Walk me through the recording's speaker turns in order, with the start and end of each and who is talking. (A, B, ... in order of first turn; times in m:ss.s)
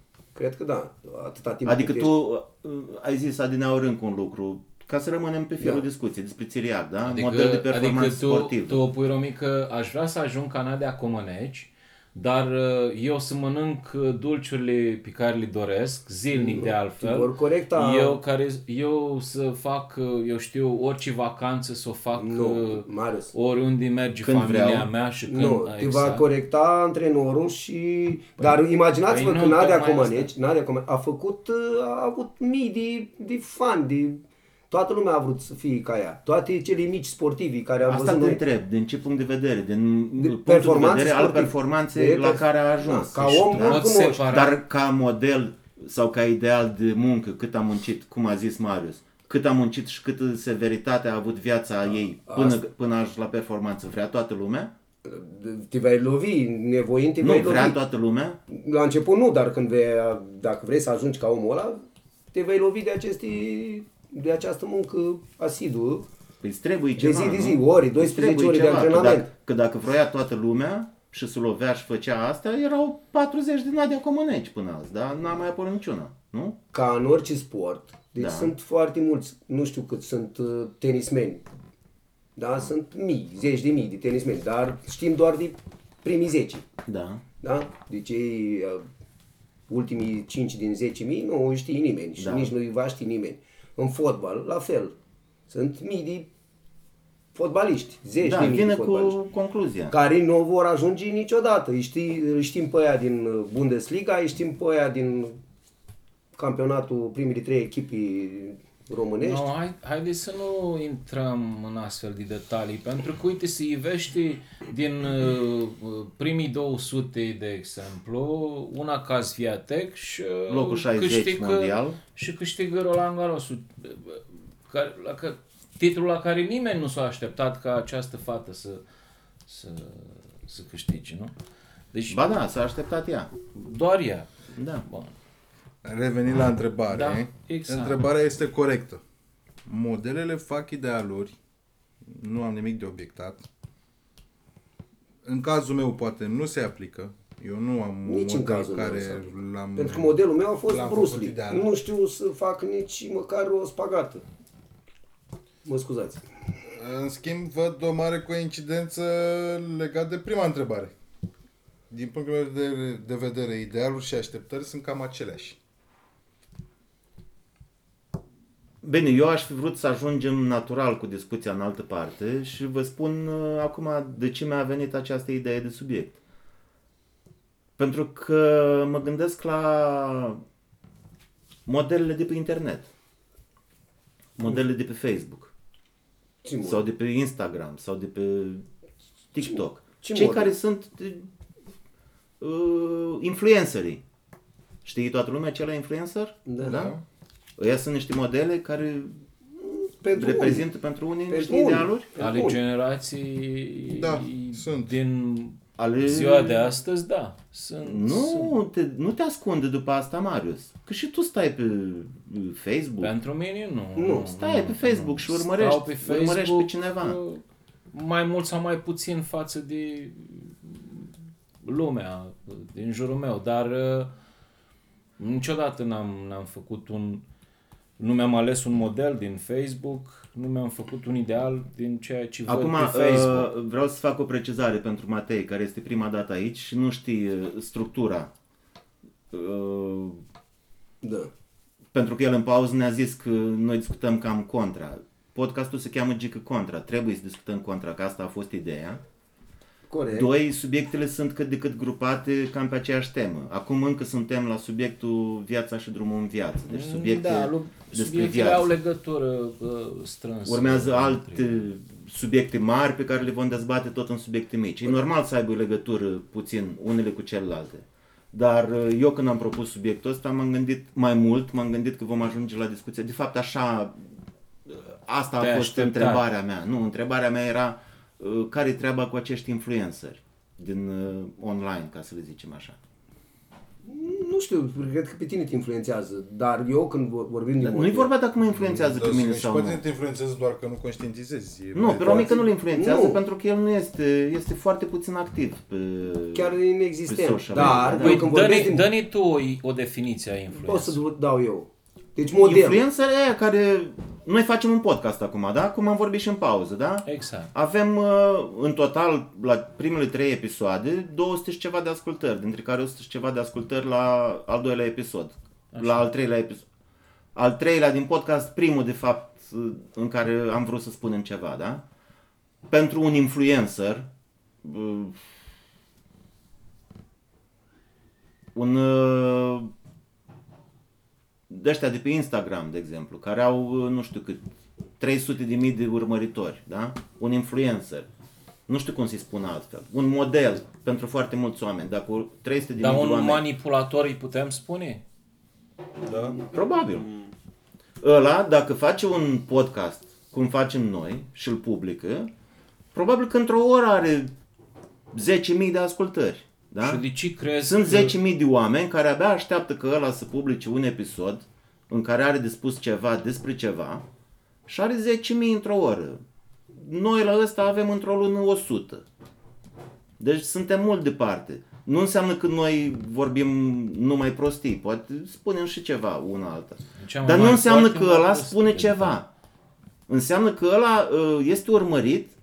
0:00.3-0:02.1 A
0:01.6-0:08.8 B
0:05.6-0:05.8 A
0:07.0-0:26.2 C
0:16.3-0:18.2 A
0:22.2-0:23.3 A
0:24.2-0:24.9 B
0:25.3-0:38.4 A
0:29.1-0:30.3 C
0:37.8-0:54.7 B
0:40.2-0:44.3 A
0:43.6-0:44.6 C
0:52.3-0:52.6 A
0:55.0-0:57.8 A
0:57.2-0:58.4 B
0:58.5-1:06.1 A
1:06.4-1:16.6 B
1:07.0-1:09.3 A
1:16.7-1:21.4 A
1:18.2-1:18.5 B
1:22.4-1:26.6 A
1:26.8-1:27.2 B
1:27.4-1:28.8 A
1:29.7-1:34.9 A
1:32.2-1:32.5 B
1:35.5-1:36.3 A
1:37.3-1:39.2 A
1:38.2-1:39.9 B
1:39.9-1:45.4 A
1:46.4-1:49.5 A
1:49.2-2:08.8 C
2:00.5-2:02.0 B
2:09.5-2:11.3 C
2:11.9-2:12.2 C
2:12.1-2:13.3 B
2:13.5-2:14.3 C
2:14.6-2:14.8 B
2:14.8-2:15.1 C
2:15.8-2:19.0 D
2:16.9-2:18.1 C
2:19.6-2:21.3 D
2:22.0-2:23.4 D
2:25.2-2:31.7 D
2:28.0-2:34.2 A
2:35.6-2:36.2 A
2:36.7-2:40.9 D
2:41.9-2:45.6 D
2:48.8-2:56.2 B
2:57.8-3:00.4 B
3:01.7-3:02.9 B
3:04.4-3:05.5 B
3:06.4-3:06.8 A
3:06.6-3:08.6 B
3:09.3-3:11.3 B
3:09.4-3:10.5 A
3:12.4-3:14.0 B
3:14.8-3:16.9 B
3:16.4-3:16.9 A
3:16.6-3:17.0 D
3:17.6-3:19.2 B
3:19.6-3:20.7 A
3:20.2-3:22.1 B
3:21.3-3:22.6 A
3:22.2-3:28.5 C
3:24.0-3:24.9 D
3:25.8-3:26.7 B
3:27.8-3:33.1 B
3:33.0-3:41.1 C
3:34.0-3:34.3 A
3:34.3-3:37.2 B
3:41.6-3:44.1 C
3:45.2-3:47.2 C
3:48.0-3:53.5 C
3:52.5-3:58.3 B
3:59.3-4:00.2 B
4:01.0-4:01.3 A
4:01.9-4:09.0 B
4:09.9-4:10.3 A
4:10.1-4:18.7 B
4:16.7-4:21.7 C
4:20.4-4:34.0 B
4:34.7-4:42.8 B
4:35.4-4:36.2 C
4:43.8-4:48.1 A
4:47.6-4:49.8 B
4:48.4-4:52.4 D
4:51.7-4:56.6 B
4:52.1-4:53.2 A
4:56.3-4:58.9 A
4:57.1-4:58.3 B
4:57.6-5:01.0 C
5:00.6-5:02.8 A
5:02.4-5:16.6 B
5:07.0-5:07.5 C
5:15.7-5:16.1 C
5:17.3-5:21.8 B
5:22.7-5:24.1 B
5:24.6-5:25.4 B
5:28.5-5:29.7 B
5:31.5-5:34.4 B
5:35.0-5:38.1 B
5:38.7-5:43.4 B
5:42.8-5:45.0 C
5:46.3-5:47.1 B
5:48.0-5:52.3 B
5:52.9-5:54.3 B
5:55.1-5:57.0 B
5:56.8-5:58.2 C
5:57.6-6:04.0 B
6:04.7-6:09.0 B
6:10.2-6:19.3 B
6:17.0-6:19.2 C
6:20.1-6:22.3 B